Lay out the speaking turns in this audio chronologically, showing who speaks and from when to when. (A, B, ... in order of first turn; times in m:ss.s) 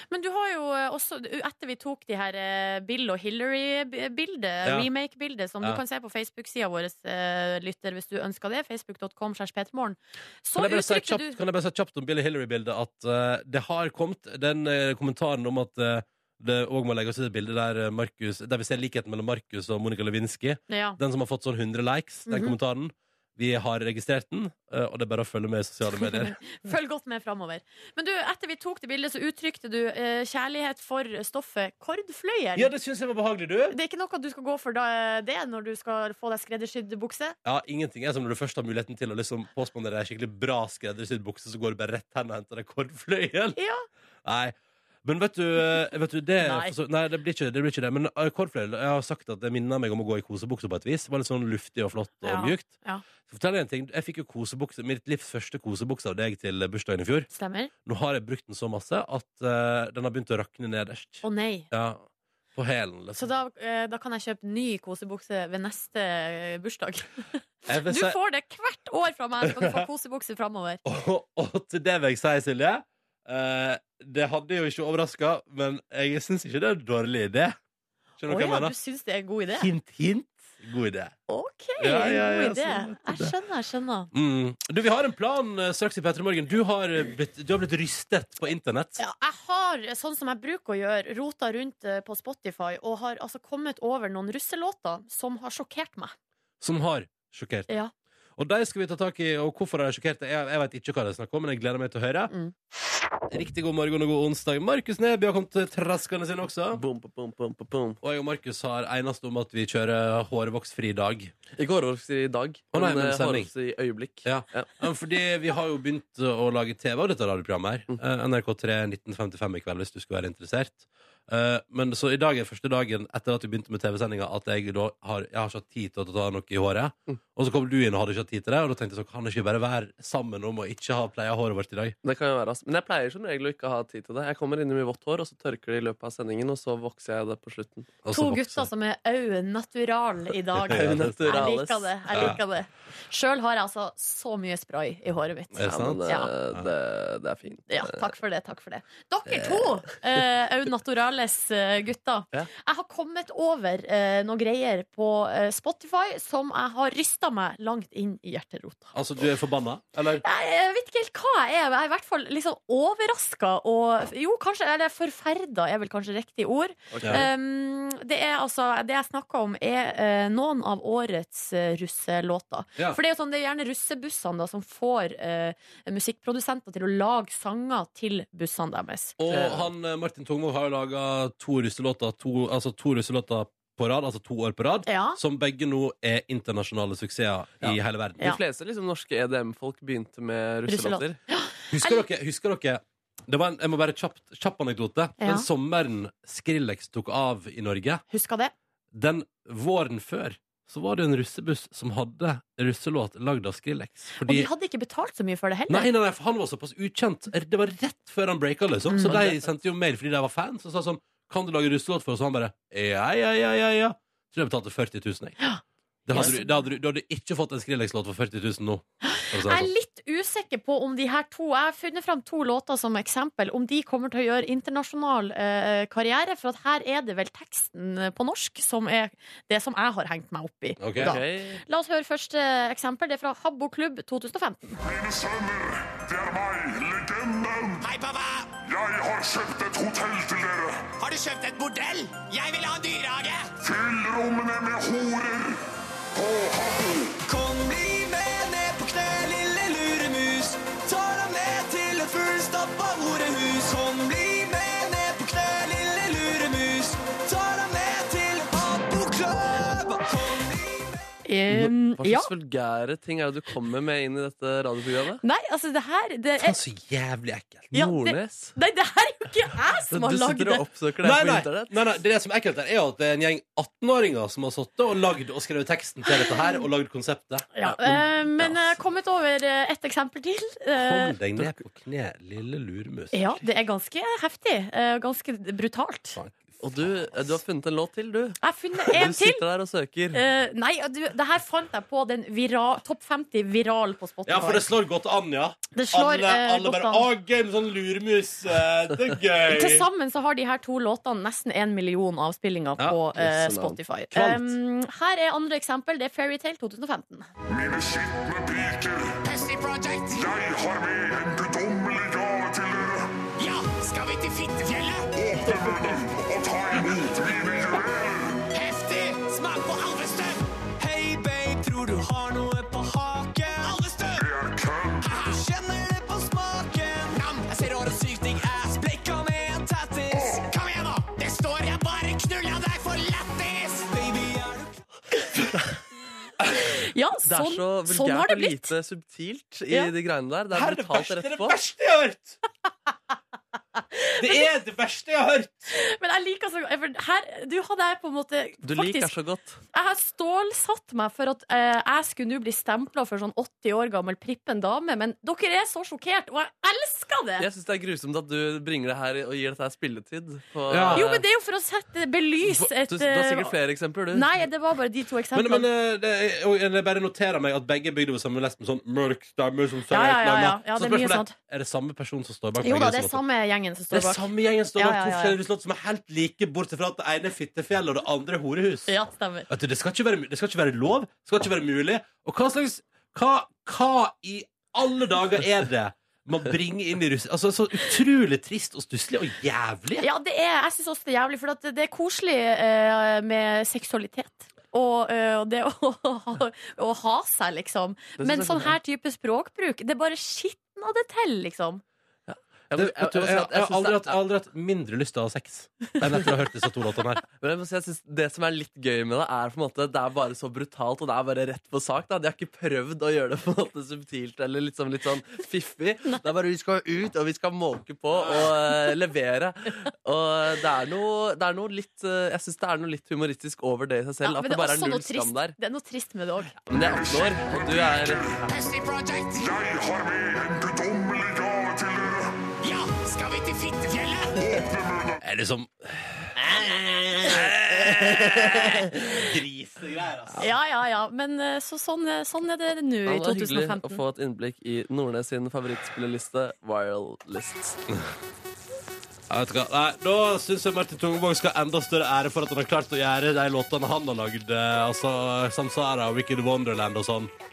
0:00.1-0:11.4 A
0:04.6-0:04.9 B
0:10.6-0:26.4 B
0:20.7-0:21.0 A
0:22.3-0:22.5 A
0:26.0-0:32.7 A
0:32.6-0:33.8 B
0:33.7-0:37.4 A
0:37.4-0:43.6 B
0:43.6-0:43.9 A
0:44.2-0:52.7 B
0:46.4-0:46.7 A
0:52.2-0:53.0 A
0:53.3-0:57.3 B
0:57.3-0:57.7 A
0:57.8-1:03.3 B
1:01.2-1:01.7 A
1:03.2-1:10.8 A
1:07.7-1:08.2 B
1:09.4-1:09.8 B
1:10.8-1:17.6 B
1:18.2-1:18.7 B
1:18.2-1:19.7 A
1:19.5-1:21.1 B
1:21.3-1:24.1 A
1:21.8-1:23.3 B
1:24.1-1:29.0 B
1:29.0-1:36.1 A
1:36.6-1:37.7 B
1:38.4-1:42.3 B
1:43.3-1:46.8 B
1:46.7-1:48.0 C
1:48.0-1:51.3 B
1:51.6-1:54.7 C
1:52.7-1:53.5 B
1:54.2-2:12.0 B
2:12.0-2:17.9 C
2:18.0-2:18.7 B
2:18.1-2:26.3 A
2:20.6-2:21.2 B
2:20.7-2:22.3 C
2:25.5-2:26.7 B
2:25.7-2:27.9 C
2:27.7-2:38.9 A
2:38.9-2:40.2 B
2:40.2-2:59.1 A
2:46.9-2:47.2 C
2:47.0-2:47.3 B
2:59.2-3:08.3 B
2:59.3-2:59.7 C
3:04.9-3:05.2 A
3:07.6-3:11.2 C
3:10.7-3:12.0 A
3:11.7-3:18.0 B
3:15.2-3:15.5 A
3:18.1-3:18.5 A
3:18.9-3:24.5 B
3:24.2-3:25.9 A
3:25.7-3:35.4 B
3:28.9-3:29.3 A
3:36.0-3:39.7 B
3:36.1-3:36.5 A
3:39.0-3:54.8 A
3:50.8-3:51.2 B
3:51.0-3:51.6 C
3:54.8-3:57.9 D
3:57.8-3:58.5 E
3:58.6-4:00.9 D
4:01.0-4:03.5 E
4:03.6-4:05.6 D
4:06.1-4:07.2 D
4:07.2-4:21.0 E
4:21.2-4:22.3 A
4:21.5-4:25.2 C
4:25.2-4:26.6 A
4:26.4-4:27.7 B
4:27.7-4:28.5 C
4:27.7-4:30.6 A
4:29.9-4:31.7 C
4:31.0-4:38.8 B
4:36.1-4:36.5 A
4:37.6-4:41.2 A
4:40.7-4:43.4 B
4:43.1-4:46.2 A
4:46.2-4:47.2 B
4:46.6-4:50.2 C
4:48.4-4:49.4 A
4:50.1-4:54.7 A
4:54.2-4:59.9 B
4:55.7-4:57.1 A
4:59.5-5:07.3 A
5:03.1-5:03.8 C
5:04.2-5:04.4 B
5:07.5-5:09.2 D
5:09.2-5:10.3 E
5:10.1-5:13.2 D
5:13.4-5:15.1 E
5:15.1-5:18.4 D
5:18.5-5:24.2 E
5:24.1-5:25.2 D
5:25.0-5:34.8 E
5:30.1-5:30.4 D
5:36.6-5:38.7 A
5:37.2-5:41.6 C
5:40.5-5:42.4 B
5:43.9-5:44.5 A
5:44.2-5:45.7 B
5:45.7-5:49.1 A
5:48.6-5:49.6 C
5:49.7-5:57.4 A
5:57.4-6:01.2 C
6:00.7-6:01.0 B
6:00.9-6:03.5 A
6:02.4-6:04.3 C
6:04.1-6:05.7 A
6:05.3-6:13.2 B
6:09.9-6:11.3 A
6:12.6-6:15.4 A
6:13.9-6:18.9 B
6:18.9-6:19.5 A
6:19.5-6:30.0 B
6:30.0-6:41.8 A
6:38.2-6:38.7 C
6:42.3-6:44.2 C
6:42.7-6:47.2 B
6:47.4-7:05.6 C
6:58.2-6:58.5 B
7:04.2-7:06.6 A
7:06.7-7:08.4 C
7:06.7-7:08.4 D
7:08.5-7:09.5 E
7:09.4-7:12.4 D
7:12.6-7:14.4 E
7:14.4-7:15.2 D
7:15.2-7:20.4 B
7:20.4-7:24.0 A
7:23.1-7:27.8 C
7:29.3-7:37.3 B